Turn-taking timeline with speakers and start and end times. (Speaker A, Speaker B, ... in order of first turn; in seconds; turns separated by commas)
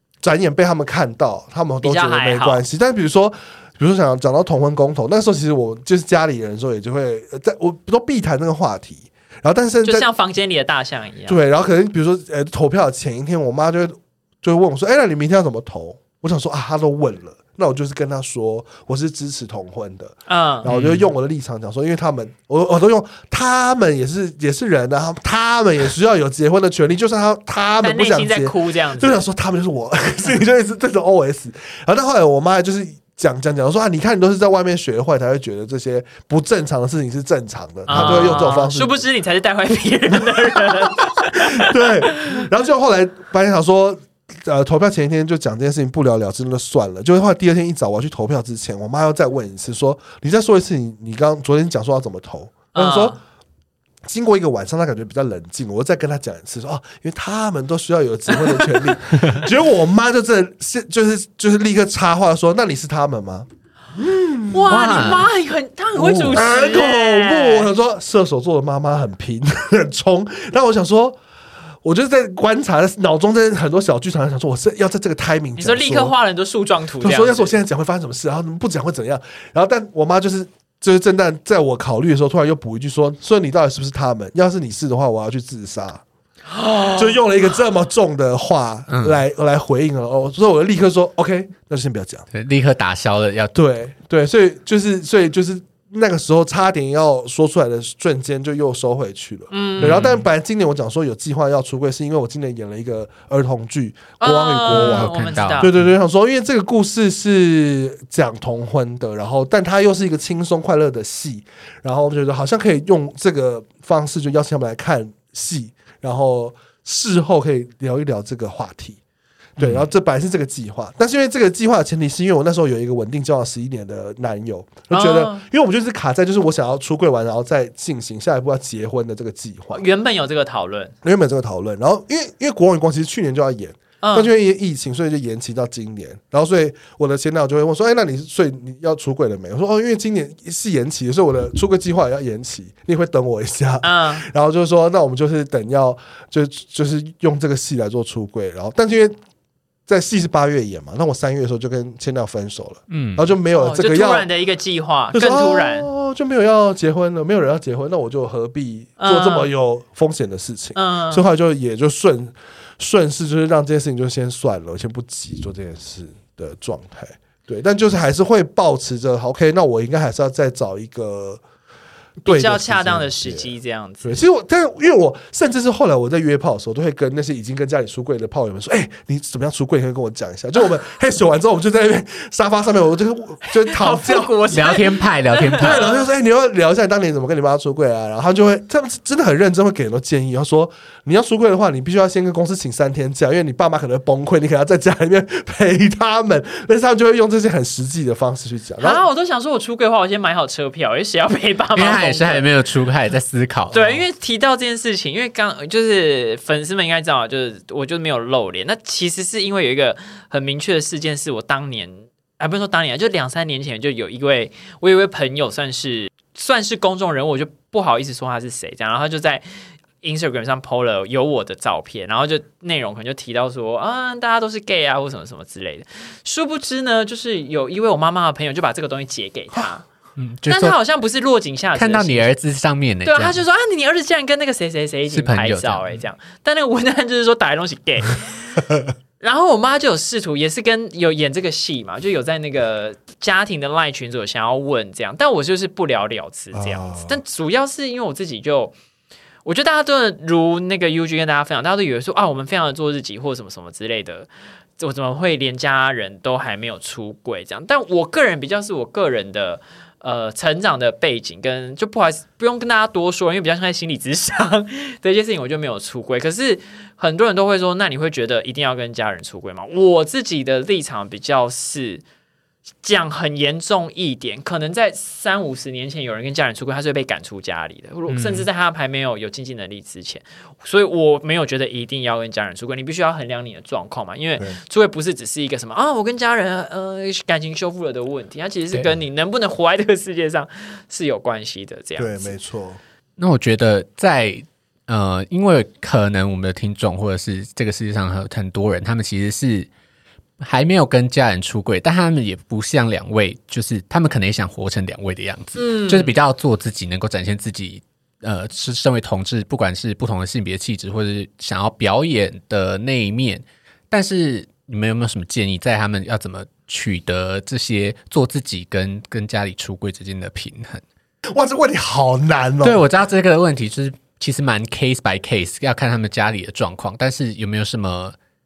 Speaker A: 0.2-10.1, Speaker B: 1.8-2.6, Speaker B: 9.8-11.4, Speaker A: 11.3-39.0, Speaker B: 20.3-20.7, Speaker C: 20.6-21.1, Speaker B: 27.8-29.2, Speaker B: 37.9-42.4, Speaker C: 37.9-38.3, Speaker A: 40.2-53.2, Speaker B: 52.7-53.2, Speaker A: 54.0-65.1, Speaker B: 58.3-58.6, Speaker B: 64.5-67.7, Speaker C: 64.7-65.3, Speaker A: 65.9-71.2, Speaker A: 71.8-76.1, Speaker B: 75.6-77.5, Speaker A: 77.0-86.0, Speaker B: 86.5-87.2, Speaker A: 86.9-92.2, Speaker C: 88.9-89.2, Speaker C: 92.3-93.5, Speaker A: 93.5-119.0, Speaker B: 99.5-100.0, Speaker C: 99.8-100.2, Speaker B: 104.2-105.7, Speaker C: 104.7-105.9, Speaker A: 119.6-129.8, Speaker C: 119.6-119.8, Speaker B: 124.9-125.4, Speaker B: 129.7-130.9, Speaker A: 131.0-149.2, Speaker B: 134.0-134.3, Speaker B: 143.8-144.2, Speaker A: 149.9-154.3, Speaker C: 152.9-153.3, Speaker B: 153.6-155.9, Speaker A: 155.1-171.4, Speaker B: 159.0-159.5, Speaker B: 160.7-161.2, Speaker A: 172.2-173.5, Speaker B: 172.2-174.2, Speaker A: 174.0-184.4, Speaker B: 183.5-186.0, Speaker C: 184.5-185.8, Speaker A: 185.6-199.0, Speaker B: 198.8-202.4, Speaker C: 201.7-203.8, Speaker B: 203.7-219.4, Speaker B: 220.0-229.9, Speaker C: 230.2-230.8, Speaker B: 230.5-232.3, Speaker C: 231.7-233.4, Speaker B: 233.0-238.6, Speaker C: 235.1-235.9, Speaker B: 239.2-248.7, Speaker A: 246.5-247.2, Speaker B: 249.4-272.0, Speaker B: 272.8-292.3, Speaker C: 278.1-278.5, Speaker A: 292.0-292.8, Speaker C: 293.2-299.7, Speaker C: 300.4-320.8, Speaker B: 305.6-306.1, Speaker A: 321.3-322.8, Speaker C: 322.6-328.1